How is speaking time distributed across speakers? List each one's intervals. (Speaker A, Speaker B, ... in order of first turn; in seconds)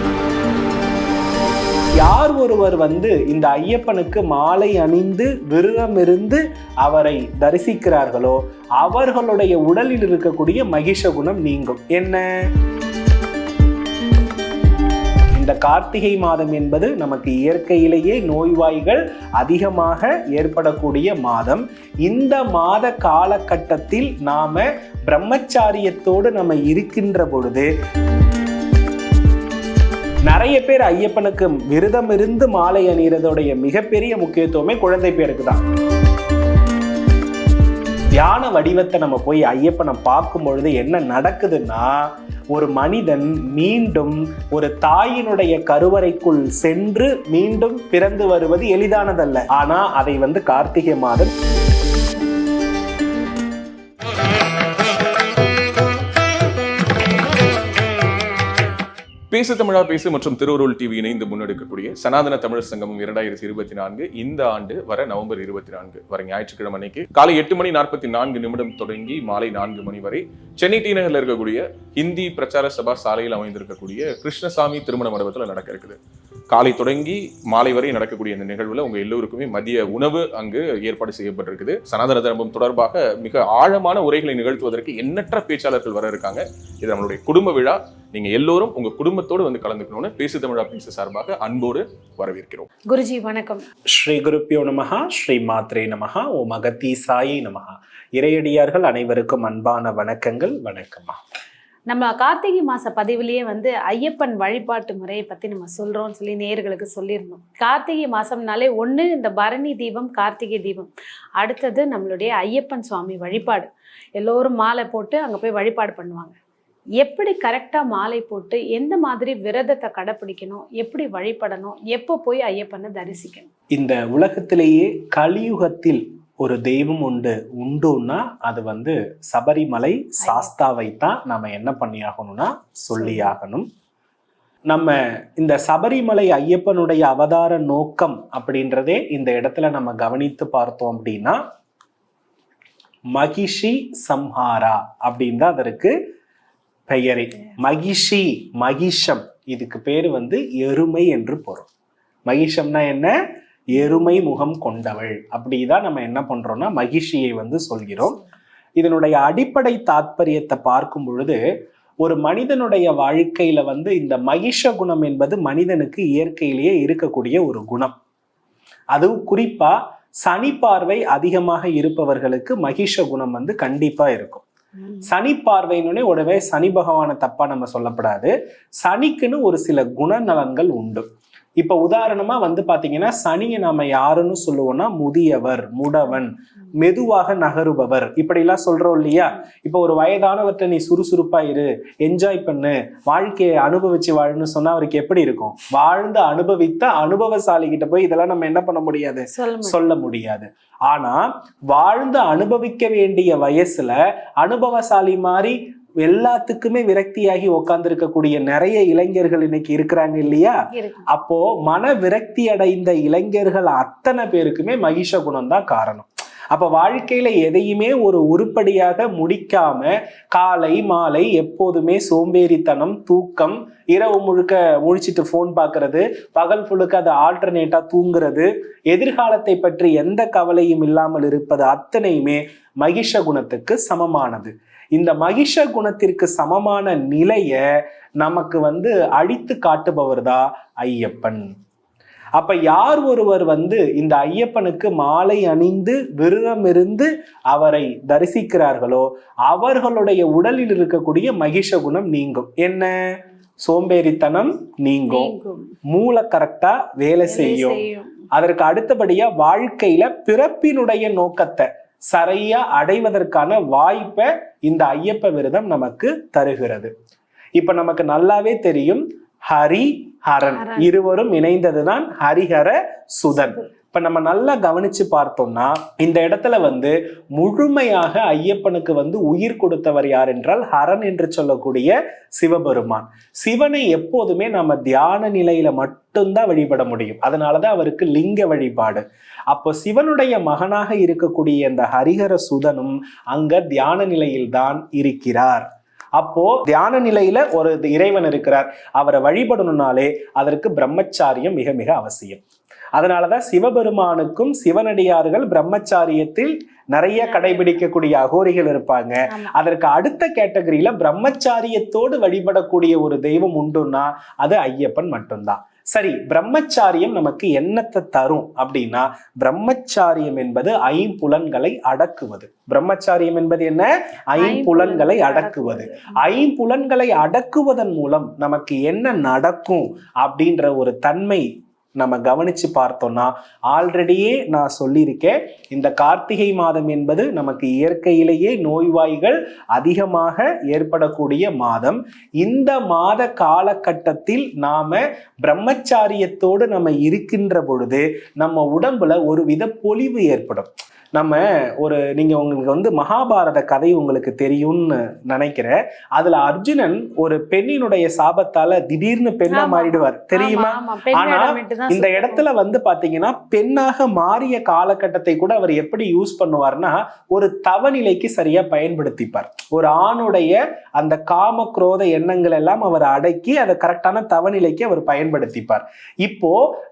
Speaker A: 2.0-12.2, 15.3-27.7, 30.3-35.6, 38.1-51.3, 93.9-101.2, 123.8-133.7, 134.7-141.4, 143.2-146.0, 146.9-151.7, 152.3-153.1, 153.7-158.2, 158.8-161.4, 162.0-167.9, 168.9-174.4, 175.1-181.1, 181.6-210.5, 211.1-237.6, 238.2-241.5, 242.4-252.9, 253.7-255.3, 255.9-257.8, 258.4-266.9, 267.6-295.6, 296.2-302.4, 303.0-331.5, 332.0-376.6
Speaker B: 59.3-76.0, 76.5-92.7
Speaker C: 92.9-93.6, 101.9-116.3, 117.0-123.5, 130.2-130.5, 132.9-133.3, 199.3-199.8, 210.7-211.1, 255.1-255.7, 257.3-258.1, 270.5-270.9, 307.2-307.8, 324.4-326.1, 359.5-362.4